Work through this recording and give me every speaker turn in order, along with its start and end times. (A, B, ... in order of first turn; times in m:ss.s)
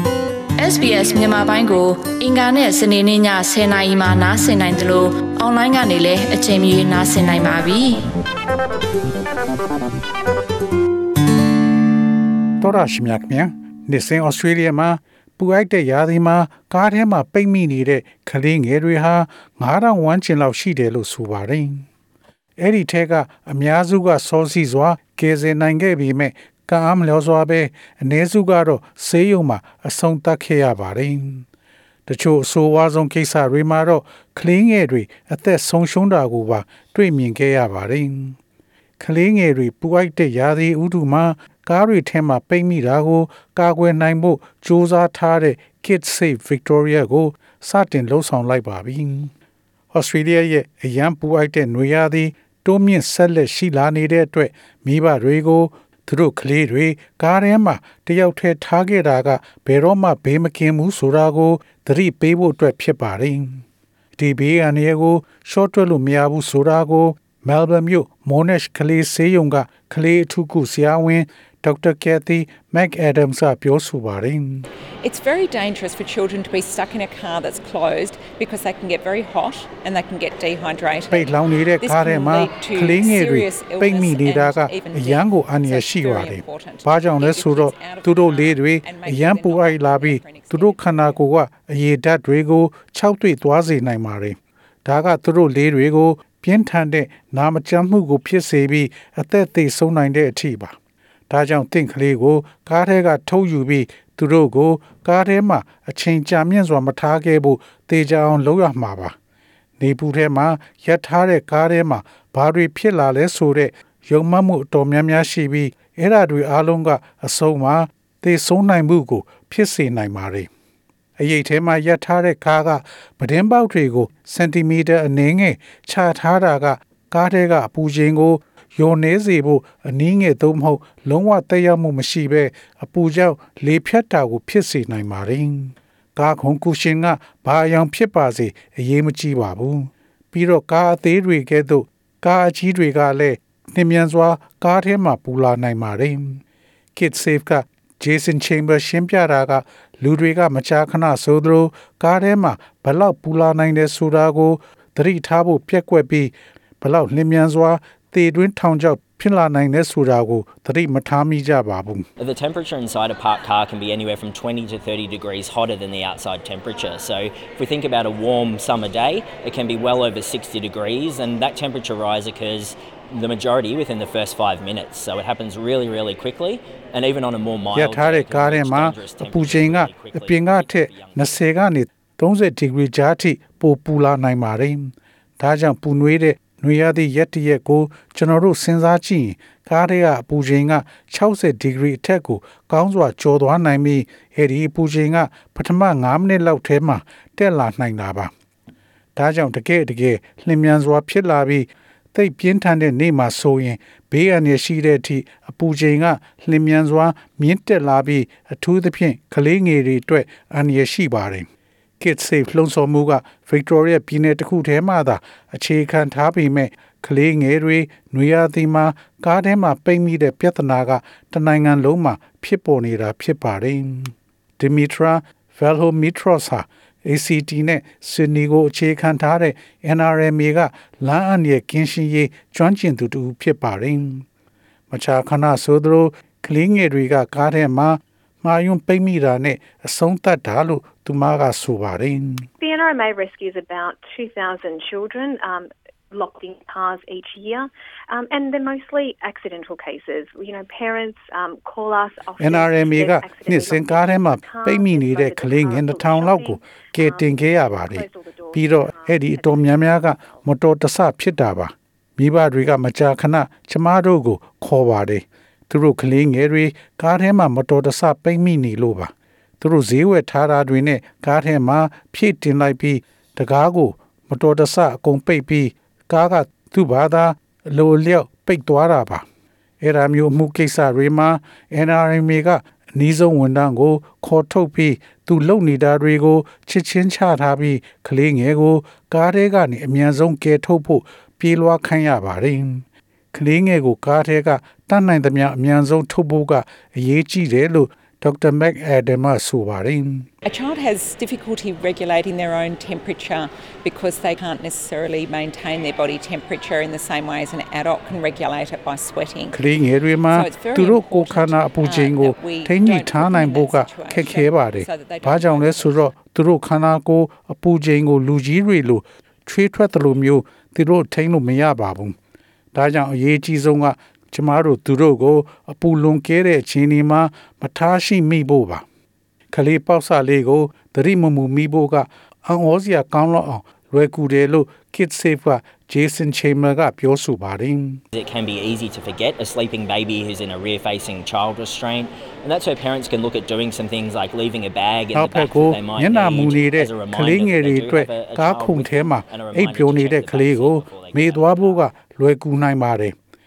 0:00.6-0:08.0 A
0:12.6-0:21.8 B
0:22.6-0:31.5 B
0:32.1-0:38.4 B
0:39.0-0:49.3 B
0:49.9-1:03.6 B
1:04.2-1:14.7 B
1:15.0-1:21.2 C
1:21.1-1:40.8 B
1:21.8-1:31.1 C
1:41.3-1:49.2 B
1:49.8-2:00.5 B
2:01.2-2:26.4 B
2:27.0-2:42.1 B
2:42.2-3:01.4 D
2:57.7-3:18.3 B
3:19.2-3:31.5 B
3:32.0-3:54.2 B
3:54.9-4:02.5 B
4:02.6-4:20.4 E
4:12.4-4:39.2 B
4:39.8-5:00.3 B
5:00.4-5:09.6 C
5:09.5-5:22.2 B
5:10.3-5:16.1 C
5:22.7-5:28.8 B
5:29.5-5:38.0 B
5:38.2-5:51.9 D
5:45.1-5:53.2 B